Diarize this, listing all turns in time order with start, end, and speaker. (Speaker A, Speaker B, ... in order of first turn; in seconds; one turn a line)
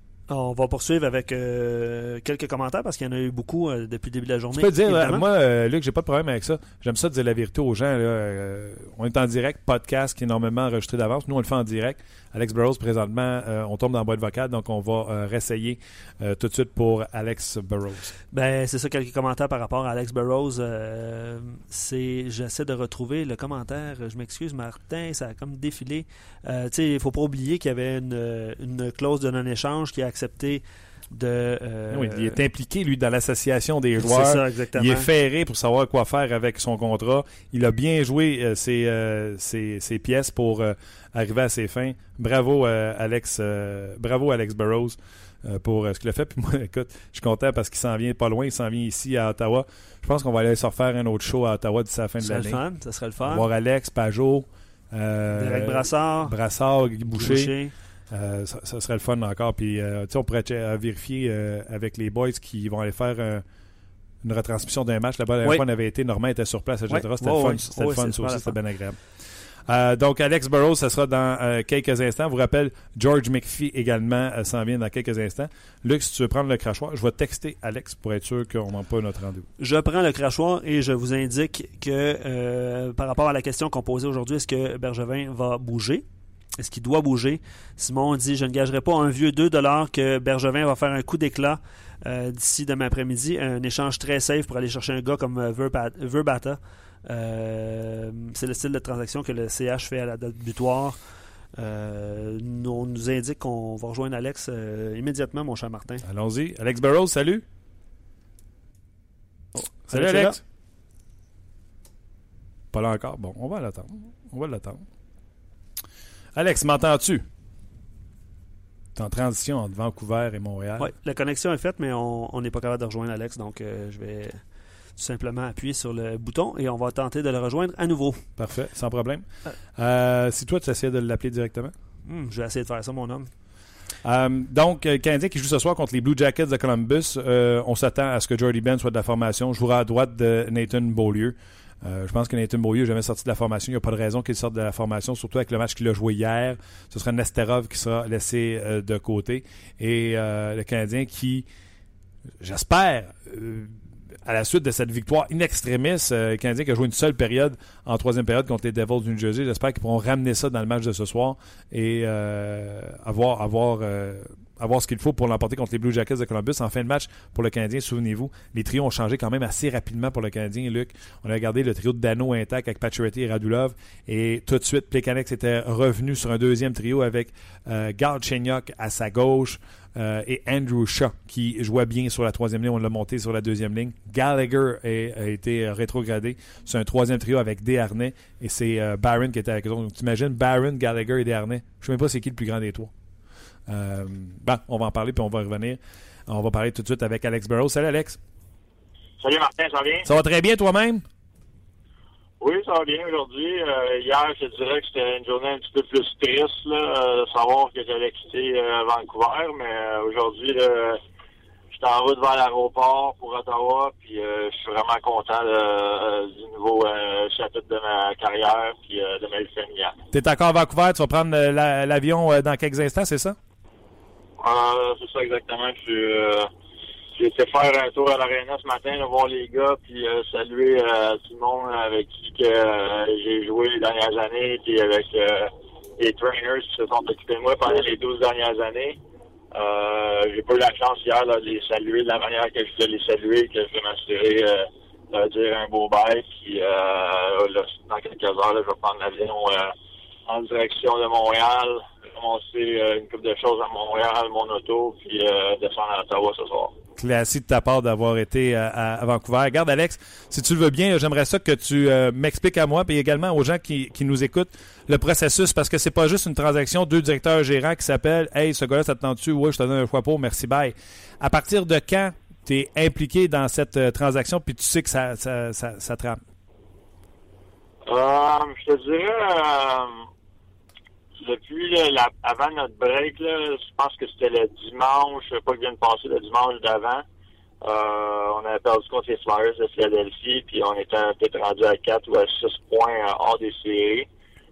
Speaker A: 0.3-5.2
Speaker B: 4.5-18.1
Speaker A: 18.3-32.4
Speaker B: 31.9-52.6
Speaker A: 34.0-35.1
Speaker A: 52.2-53.5
Speaker B: 53.2-57.5
Speaker A: 55.4-56.4
Speaker A: 57.1-57.7
Speaker B: 58.1-63.4
Speaker B: 64.2-69.0
Speaker A: 66.9-68.6
Speaker B: 69.7-79.5
Speaker A: 79.6-86.0
Speaker A: 86.6-101.0
Speaker A: 101.5-106.0
Speaker B: 106.0-107.4
Speaker B: 109.6-110.4
Speaker A: 109.9-110.4
Speaker B: 112.7-114.8
Speaker B: 116.3-117.2
Speaker B: 118.9-120.9
Speaker A: 120.8-124.4
Speaker A: 125.0-128.2
Speaker B: 128.4-129.2
Speaker B: 129.8-131.7
Speaker A: 132.1-133.3
Speaker B: 134.0-151.4
Speaker B: 152.4-153.7
Speaker B: 154.2-192.9
Speaker B: 193.7-198.2
Speaker C: 199.2-200.1
Speaker B: 200.0-201.0
Speaker C: 202.4-211.0
Speaker C: 211.7-219.9
Speaker B: 220.1-223.3
Speaker C: 224.4-226.5
Speaker C: 227.2-239.0
Speaker C: 239.5-249.7
Speaker C: 250.3-256.7
Speaker B: 257.0-276.2
Speaker C: 277.9-280.1
Speaker C: 281.2-287.0
Speaker C: 287.6-294.1